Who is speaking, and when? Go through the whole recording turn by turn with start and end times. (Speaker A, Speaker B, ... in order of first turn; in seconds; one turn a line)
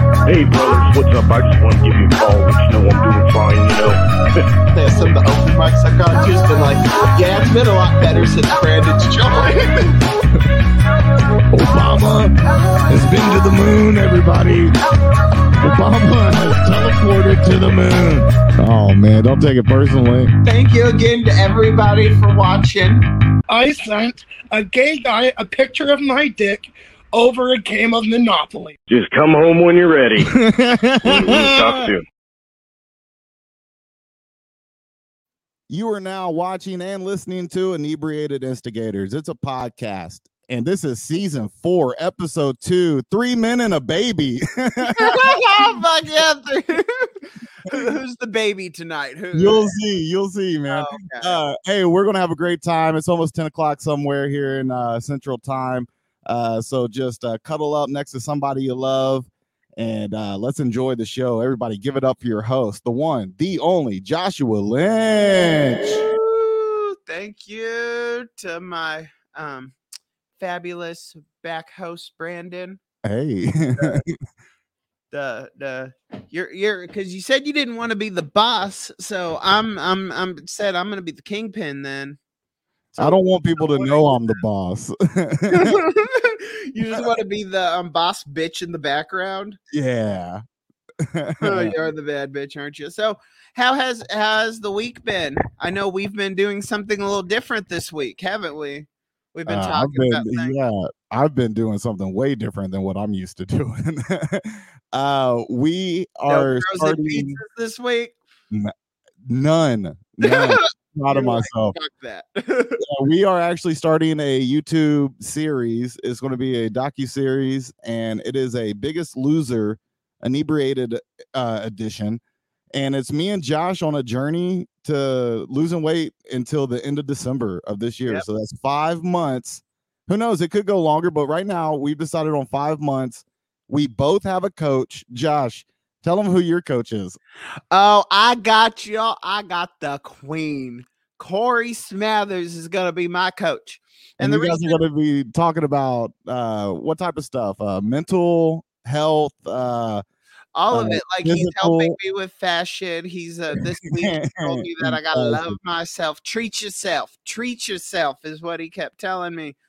Speaker A: 0.2-4.0
Speaker B: 4.7-9.9
Speaker C: 11.5-12.3
Speaker C: 12.9-14.8
Speaker C: 15.6-20.3
Speaker B: 20.4-23.0
Speaker D: 23.5-28.8
Speaker A: 28.9-30.3
Speaker C: 30.2-31.9
Speaker A: 31.0-32.0
Speaker C: 35.7-45.8
Speaker B: 44.8-47.1
Speaker B: 47.6-49.7
Speaker C: 49.3-66.0
Speaker B: 50.7-51.4
Speaker B: 65.9-69.8
Speaker B: 70.4-72.8
Speaker C: 73.0-74.1
Speaker B: 73.8-74.0
Speaker B: 75.1-82.2
Speaker B: 82.9-84.4
Speaker C: 83.0-85.8
Speaker B: 85.5-89.6
Speaker C: 89.7-90.4
Speaker C: 91.0-91.7
Speaker B: 91.4-100.5
Speaker C: 99.5-107.4
Speaker B: 106.3-108.2
Speaker C: 109.2-111.7
Speaker B: 110.2-112.8
Speaker C: 112.8-122.2
Speaker C: 122.7-137.2
Speaker B: 137.7-144.8
Speaker C: 144.2-150.0
Speaker B: 150.5-159.6
Speaker C: 150.7-152.0
Speaker C: 153.9-155.6